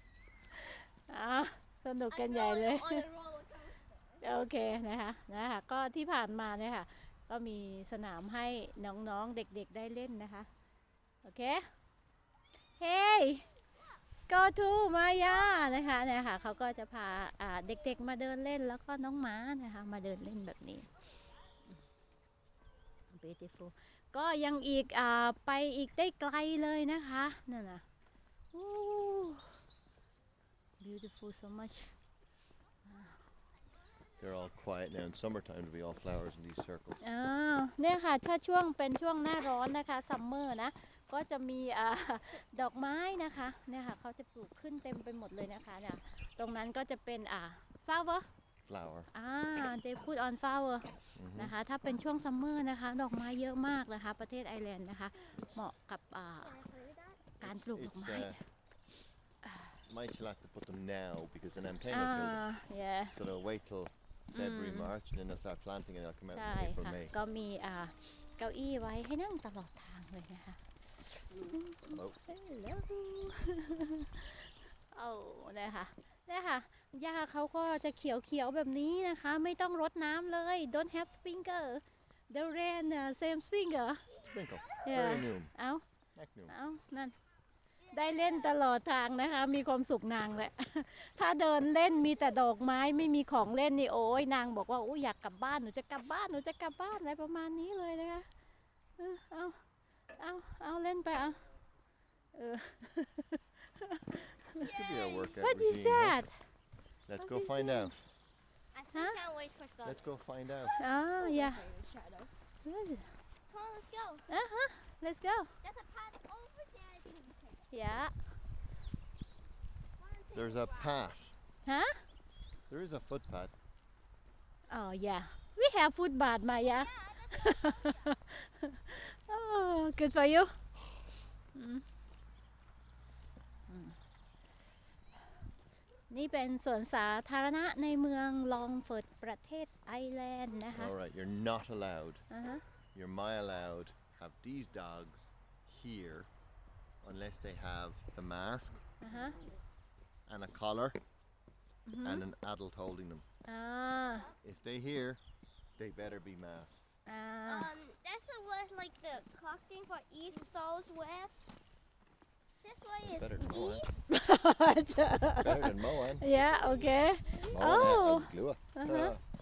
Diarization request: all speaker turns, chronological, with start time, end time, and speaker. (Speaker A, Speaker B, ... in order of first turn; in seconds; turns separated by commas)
Speaker A: 0.6-3.0, Speaker B: 2.1-3.9, Speaker A: 4.2-10.5, Speaker A: 11.2-11.7, Speaker A: 12.8-13.5, Speaker A: 14.3-20.9, Speaker A: 23.1-27.8, Speaker A: 28.5-29.6, Speaker A: 30.8-32.0, Speaker A: 32.9-33.2, Speaker C: 34.2-37.0, Speaker A: 37.0-48.3, Speaker C: 48.7-49.1, Speaker A: 49.1-56.7, Speaker C: 51.2-51.5, Speaker C: 55.3-55.7, Speaker B: 56.5-57.2, Speaker C: 57.4-58.4, Speaker A: 57.4-58.4, Speaker C: 59.9-62.5, Speaker A: 61.9-63.2, Speaker C: 63.1-67.1, Speaker A: 64.3-64.9, Speaker A: 66.3-84.1, Speaker C: 71.9-72.2, Speaker C: 84.2-85.5, Speaker A: 84.8-85.8, Speaker C: 86.2-86.5, Speaker A: 86.5-87.2, Speaker B: 87.9-88.4, Speaker A: 87.9-98.3, Speaker A: 99.0-99.6, Speaker A: 100.2-101.4, Speaker A: 102.3-104.5, Speaker C: 104.6-106.2, Speaker B: 104.6-105.4, Speaker A: 105.4-106.5, Speaker C: 107.1-108.0, Speaker A: 107.2-108.0, Speaker B: 108.7-110.0, Speaker C: 109.8-110.8, Speaker A: 110.8-111.7, Speaker B: 111.2-112.3, Speaker A: 112.7-113.1, Speaker B: 113.5-114.2, Speaker A: 114.3-115.5, Speaker B: 115.6-117.7, Speaker A: 117.7-118.1, Speaker B: 120.0-121.0, Speaker C: 120.3-121.3, Speaker A: 121.7-122.0, Speaker C: 122.7-123.5, Speaker A: 124.7-130.6, Speaker B: 126.7-128.1, Speaker A: 131.5-131.8, Speaker A: 133.7-134.0, Speaker A: 136.1-140.9, Speaker C: 140.7-142.3, Speaker A: 142.3-142.6, Speaker C: 142.9-146.3, Speaker C: 147.0-149.3, Speaker A: 149.0-149.4, Speaker C: 150.3-151.0, Speaker A: 151.9-152.3, Speaker C: 152.0-153.3, Speaker A: 153.5-154.3, Speaker C: 154.4-155.2, Speaker C: 155.8-156.8, Speaker A: 157.1-157.7, Speaker B: 157.5-161.5, Speaker B: 162.6-164.1, Speaker C: 163.0-163.9, Speaker A: 164.1-169.2, Speaker C: 165.4-166.3, Speaker B: 166.3-167.5, Speaker C: 167.5-169.2